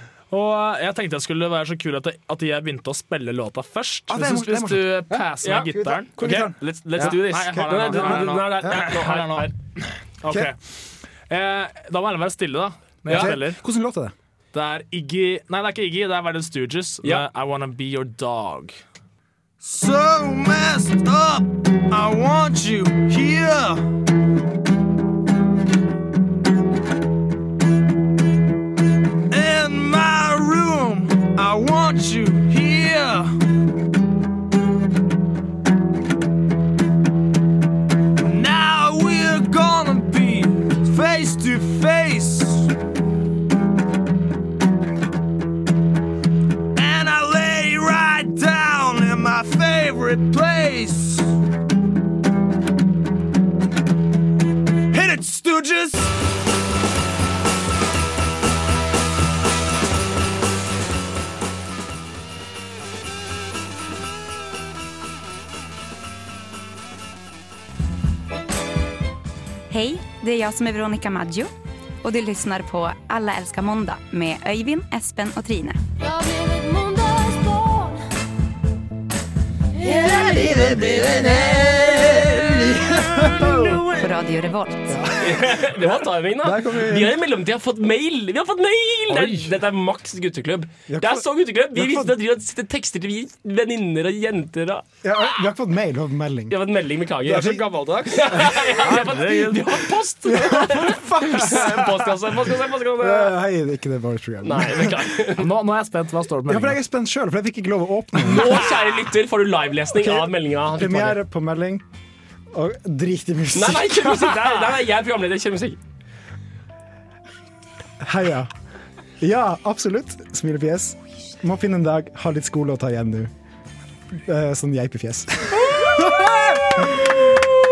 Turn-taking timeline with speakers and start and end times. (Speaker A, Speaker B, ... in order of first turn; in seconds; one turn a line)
Speaker A: 0.3-10.6
Speaker B: 4.1-8.8
Speaker C: 5.4-9.5
Speaker B: 10.2-10.5
Speaker A: 11.3-13.6
Speaker C: 13.1-13.4
Speaker B: 13.1-14.1
Speaker A: 14.5-18.7
Speaker D: 19.6-23.9
Speaker D: 29.3-33.4
Speaker D: 38.2-42.7
Speaker D: 46.8-51.3
Speaker D: 54.9-56.1
Speaker E: 69.7-71.5
Speaker E: 72.0-75.8
Speaker D: 76.2-77.8
Speaker B: 79.8-83.9
Speaker D: 80.0-83.9
Speaker E: 84.0-84.9
Speaker B: 84.9-87.2
Speaker C: 85.2-94.8
Speaker A: 89.1-89.5
Speaker B: 90.9-92.2
Speaker B: 95.0-96.6
Speaker C: 96.5-103.3
Speaker B: 97.2-97.6
Speaker A: 98.8-99.8
Speaker B: 100.2-105.1
Speaker C: 104.4-105.5
Speaker A: 105.4-106.8
Speaker B: 106.5-108.7
Speaker C: 108.2-111.2
Speaker B: 109.9-111.8
Speaker B: 112.5-114.7
Speaker C: 113.5-115.8
Speaker B: 118.0-118.5
Speaker B: 119.2-123.3
Speaker B: 124.1-127.5
Speaker C: 125.8-126.3